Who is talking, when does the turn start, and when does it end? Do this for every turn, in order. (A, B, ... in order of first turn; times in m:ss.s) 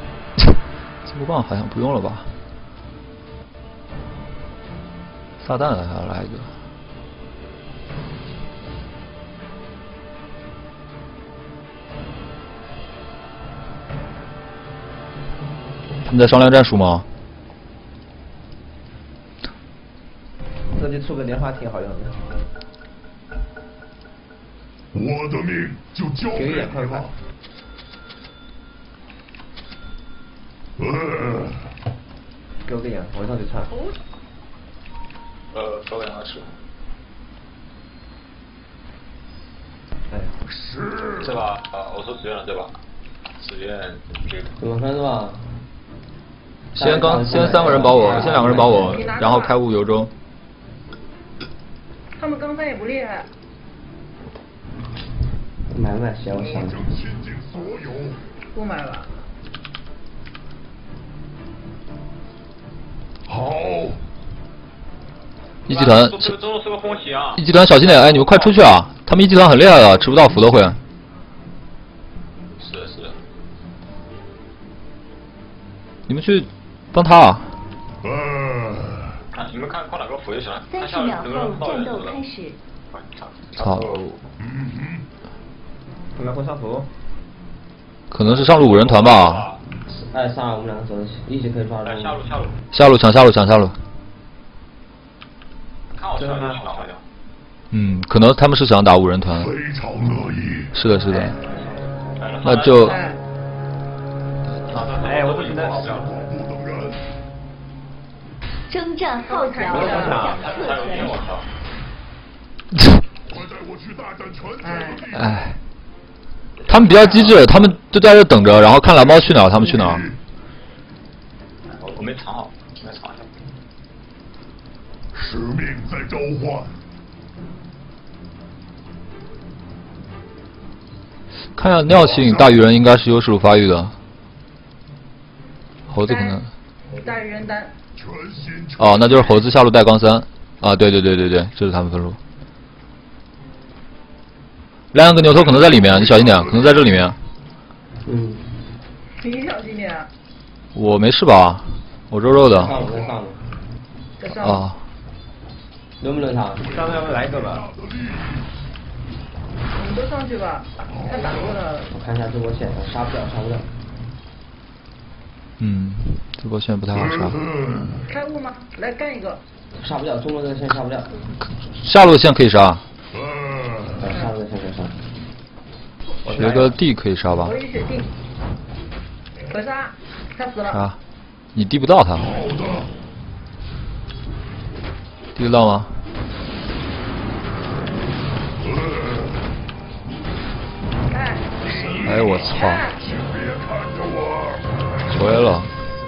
0:00.4-0:02.4 A
0:05.4-0:06.5 A
0:16.1-0:17.1 A
0:20.7-0:22.3 B
0:24.9-0:27.1 C
0:26.3-0:27.2 B
0:30.8-0:31.7 C
0:32.7-0:33.7 B
0:35.5-0:36.5 D
0:40.5-0:41.5 C
0:41.2-0:42.8 D
0:43.4-0:44.5 D
0:44.6-0:45.4 E
0:46.7-0:50.1 A
0:46.8-0:49.1 E
0:48.6-0:49.6 F
0:52.2-0:53.3 F
0:55.7-0:56.8 E
0:56.3-0:58.2 C
0:58.5-0:59.1 F
1:03.3-1:04.0 C
1:05.7-1:06.4 A
1:05.7-1:08.6 D
1:07.4-1:10.8 A
1:12.6-1:13.2 D
1:16.1-1:17.6 A
1:18.0-1:19.2 C
1:19.3-1:22.2 D
1:20.7-1:22.6 G
1:22.9-1:24.2 D
1:23.6-1:24.2 A
1:24.4-1:25.1 C
1:26.2-1:26.9 B
1:28.1-1:29.5 A
1:28.2-1:29.6 D
1:29.9-1:32.3 E
1:31.8-1:32.6 D
1:32.7-1:33.8 A
1:36.0-1:37.0 D
1:36.2-1:36.6 B
1:37.7-1:39.5 A
1:39.3-1:40.7 C
1:40.7-1:41.4 A
1:41.4-1:43.0 D
1:42.4-1:43.0 A
1:42.9-1:43.2 F
1:44.6-1:46.2 D
1:44.9-1:45.9 B
1:45.8-1:47.0 C
1:48.7-1:51.4 G
1:49.2-1:50.4 F
1:49.7-1:51.0 B
1:50.2-1:51.5 D
1:52.7-1:53.0 A
1:53.3-1:55.5 C
1:54.6-1:55.0 F
1:55.1-1:55.6 A
1:56.6-1:57.7 D
1:56.7-2:00.0 A
1:59.1-2:00.2 C
2:01.7-2:03.3 D
2:05.1-2:06.8 C
2:11.6-2:14.0 A
2:11.9-2:12.7 C
2:15.9-2:16.5 A
2:16.0-2:17.7 F
2:17.9-2:19.4 C
2:18.8-2:22.2 A
2:24.9-2:27.2 A
2:25.3-2:27.1 C
2:28.0-2:28.5 E
2:29.2-2:30.1 F
2:30.8-2:32.8 A
2:32.4-2:33.4 E
2:32.7-2:33.1 C
2:34.2-2:34.7 F
2:34.4-2:34.8 A
2:36.0-2:36.7 E
2:36.5-2:38.5 C
2:36.7-2:37.6 B
2:39.8-2:41.9 F
2:40.9-2:41.6 C
2:41.9-2:43.7 E
2:45.6-2:47.4 A
2:46.9-2:48.1 C
2:48.1-2:49.4 F
2:49.8-2:51.2 E
2:51.6-2:52.8 A
2:53.1-2:54.2 C
2:54.0-2:55.0 E
2:56.3-2:57.6 A
2:56.4-2:56.6 F
2:57.4-2:58.1 F
2:59.5-3:00.8 F
3:00.7-3:01.0 A
3:01.6-3:02.3 A
3:02.1-3:02.9 C
3:05.4-3:05.9 A
3:08.6-3:09.4 C
3:11.1-3:13.0 F
3:11.6-3:15.4 C
3:12.0-3:12.9 A
3:15.1-3:15.7 A